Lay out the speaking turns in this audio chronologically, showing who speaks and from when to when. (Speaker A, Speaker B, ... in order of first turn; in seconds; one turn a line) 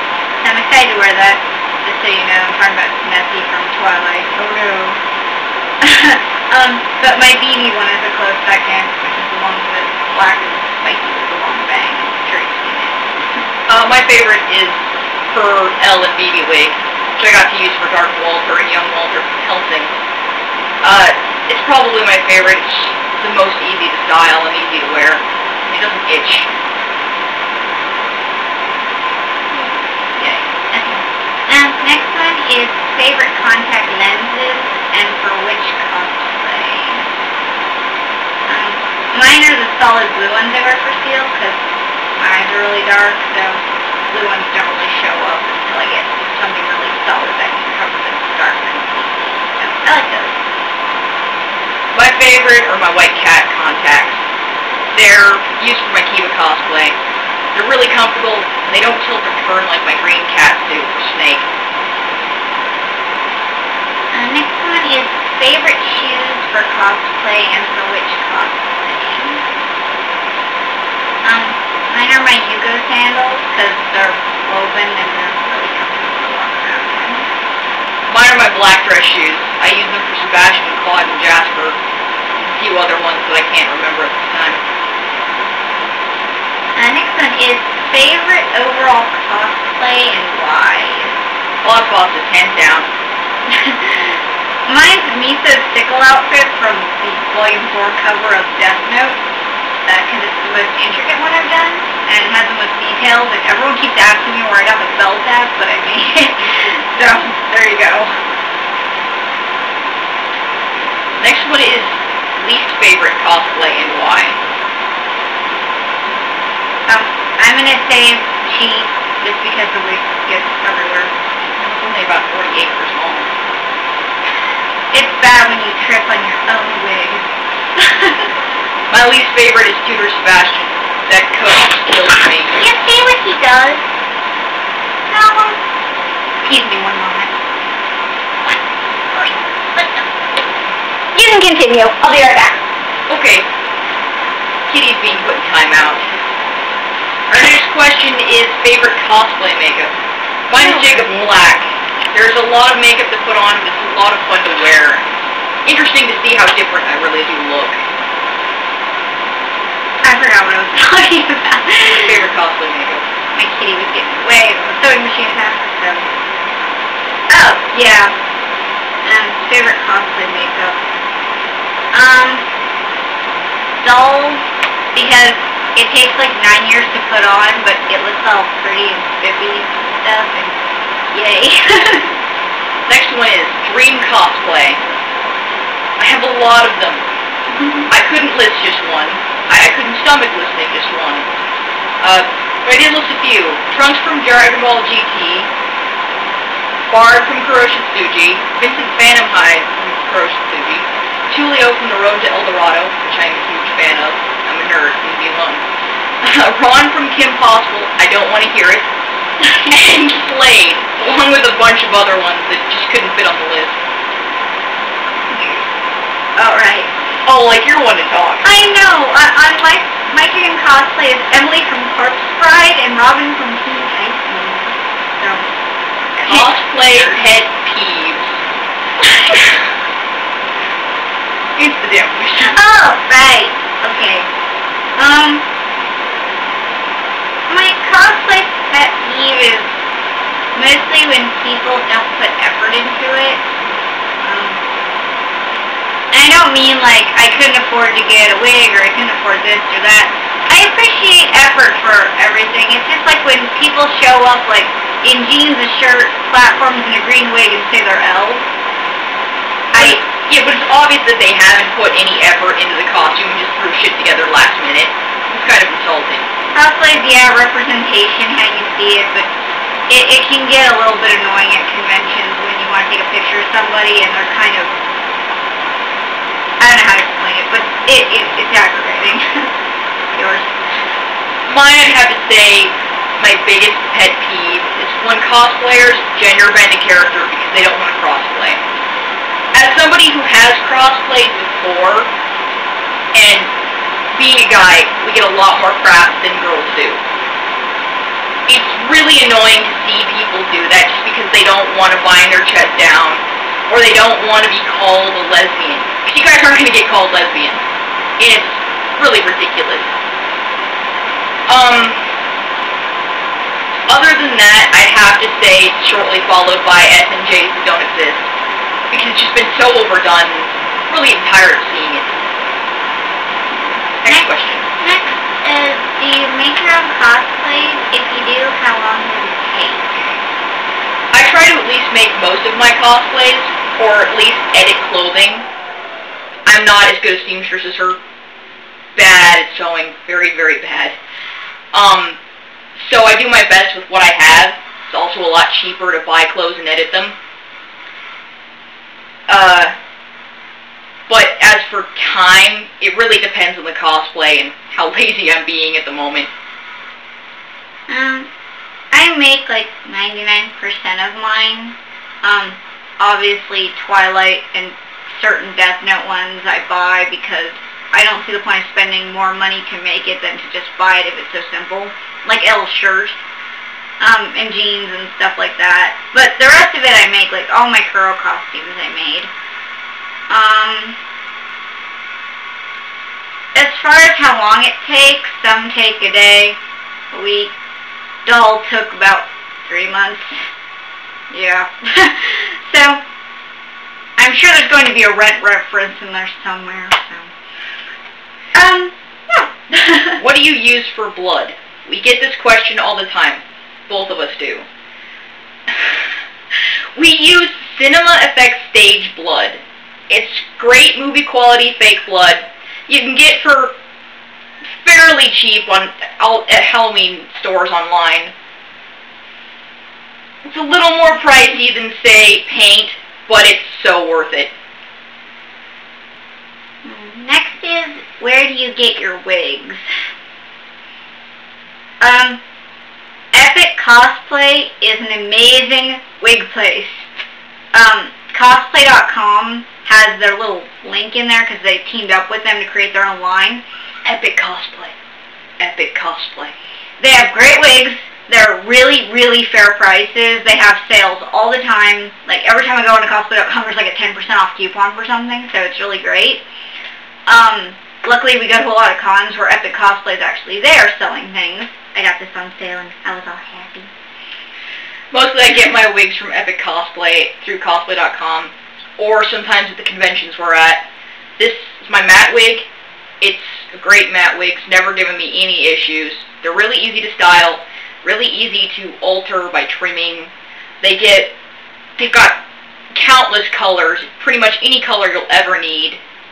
Speaker A: 0.4-5.0
Speaker A: 5.8-13.4
Speaker B: 13.7-19.9
Speaker B: 20.8-26.5
Speaker A: 29.5-37.1
Speaker A: 38.5-41.6
Speaker A: 42.2-50.4
Speaker B: 51.9-54.2
Speaker B: 54.9-57.0
Speaker B: 57.5-61.5
Speaker A: 64.1-69.4
Speaker A: 71.2-77.3
Speaker B: 78.1-81.8
Speaker B: 82.4-84.6
Speaker A: 86.7-91.2
Speaker B: 91.6-92.9
Speaker A: 93.5-99.2
Speaker A: 99.8-108.1
Speaker B: 111.2-114.4
Speaker A: 116.9-121.1
Speaker B: 121.6-123.3
Speaker A: 124.9-128.3
Speaker B: 128.9-132.6
Speaker A: 132.5-133.8
Speaker A: 135.1-135.6
Speaker A: 136.4-137.3
Speaker A: 139.1-140.0
Speaker A: 141.1-142.6
Speaker B: 143.1-143.5
Speaker B: 144.7-146.1
Speaker B: 147.3-149.9
Speaker B: 150.5-155.1
Speaker A: 150.5-151.3
Speaker B: 155.6-157.8
Speaker A: 160.0-162.2
Speaker B: 161.9-163.0
Speaker A: 163.3-166.1
Speaker A: 167.3-168.1
Speaker A: 169.0-170.8
Speaker A: 171.9-172.5
Speaker A: 173.8-180.6
Speaker A: 181.1-182.2
Speaker B: 182.9-184.8
Speaker B: 186.0-187.0
Speaker A: 187.6-187.9
Speaker B: 187.9-191.3
Speaker B: 192.0-195.5
Speaker B: 196.9-205.6
Speaker B: 206.2-208.9
Speaker A: 209.4-209.7
Speaker B: 209.7-213.8
Speaker A: 215.3-215.7
Speaker A: 216.3-216.9
Speaker B: 217.2-218.5
Speaker A: 218.4-225.5
Speaker A: 226.1-226.5
Speaker B: 226.3-228.4
Speaker A: 229.0-229.3
Speaker B: 231.6-232.6
Speaker A: 232.4-234.3
Speaker A: 235.0-235.4
Speaker A: 237.5-239.7
Speaker A: 240.5-243.4
Speaker A: 244.2-244.6
Speaker A: 246.1-258.5
Speaker A: 259.7-260.0
Speaker B: 259.7-266.3
Speaker A: 266.5-269.3
Speaker A: 269.9-274.7
Speaker A: 276.6-279.5
Speaker A: 280.1-280.5
Speaker B: 281.4-288.6
Speaker B: 289.5-292.1
Speaker B: 293.1-293.5
Speaker B: 294.1-297.0
Speaker B: 298.5-307.7
Speaker B: 308.2-309.9
Speaker B: 311.5-312.1
Speaker B: 313.9-318.3
Speaker B: 318.9-322.2
Speaker B: 324.0-324.7
Speaker A: 324.1-330.1
Speaker B: 331.1-335.4
Speaker B: 336.4-338.0
Speaker B: 338.9-341.0
Speaker B: 341.7-342.2
Speaker B: 342.8-347.1
Speaker B: 349.3-349.7
Speaker B: 351.1-356.3
Speaker A: 357.9-358.3
Speaker A: 358.9-373.2
Speaker A: 374.0-379.3
Speaker A: 380.3-381.0
Speaker A: 383.5-386.6
Speaker A: 387.1-387.5
Speaker A: 388.2-390.4
Speaker A: 391.3-393.0
Speaker A: 394.2-397.3
Speaker A: 398.5-400.2
Speaker B: 400.2-404.6
Speaker B: 406.6-413.7
Speaker B: 414.6-418.3
Speaker B: 420.4-424.5
Speaker A: 426.8-429.8
Speaker A: 432.0-432.4
Speaker A: 433.3-437.1
Speaker A: 437.7-443.6
Speaker B: 444.0-444.9
Speaker B: 445.6-446.5
Speaker A: 447.0-456.4
Speaker A: 457.3-463.9
Speaker B: 465.1-470.9
Speaker B: 471.4-472.7
Speaker B: 473.2-481.3
Speaker B: 482.0-482.4
Speaker B: 482.9-486.0